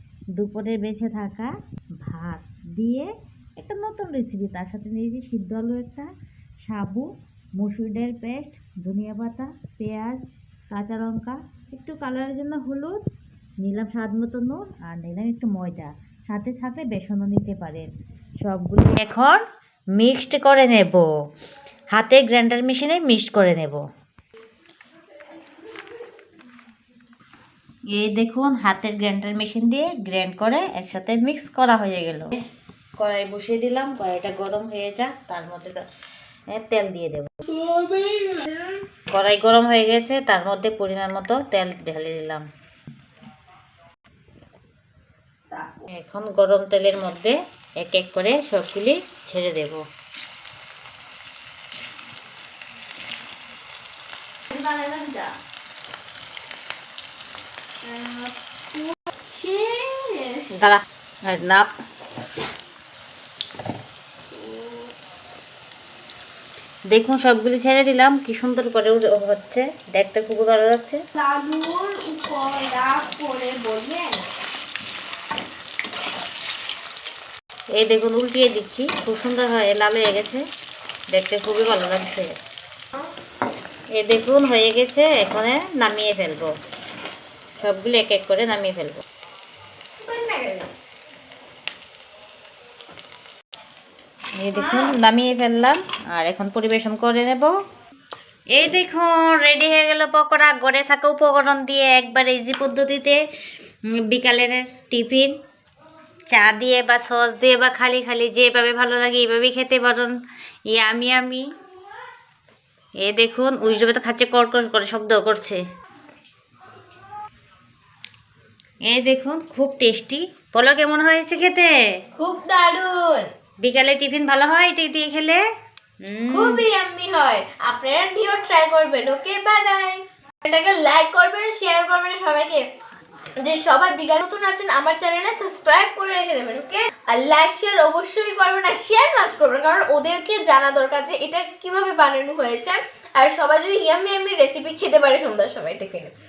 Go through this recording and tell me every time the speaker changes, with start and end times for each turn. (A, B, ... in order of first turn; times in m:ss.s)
0:00.4-0:01.5 A
0:02.0-0:06.1 A
0:06.7-0:13.0 A
0:13.6-0:17.9 A
0:18.4-0:19.4 A
0:20.0-0:21.1 A
0:21.9-0:23.8 A
0:27.9-0:32.4 A
0:33.0-0:35.8 A
0:36.5-0:37.4 A
0:37.5-0:38.6 B
0:39.1-0:42.5 A
0:45.9-0:49.8 A
0:54.5-0:55.4 B
0:57.8-1:00.5 B
1:00.5-1:01.7 A
1:04.3-1:04.8 B
1:06.9-1:11.0 A
1:11.2-1:14.3 B
1:17.8-1:20.4 A
1:21.1-1:22.3 A
1:24.0-1:26.5 A
1:27.6-1:29.0 A
1:30.0-1:30.7 B
1:34.4-1:37.6 A
1:34.5-1:35.0 B
1:38.5-1:43.2 A
1:43.9-1:45.4 A
1:46.3-1:50.2 A
1:50.7-1:51.5 A
1:53.0-1:55.6 A
1:58.8-2:01.8 A
2:02.2-2:03.3 B
2:03.6-2:05.4 A
2:06.0-2:06.6 A
2:06.3-2:12.6 B
2:13.4-2:26.1 B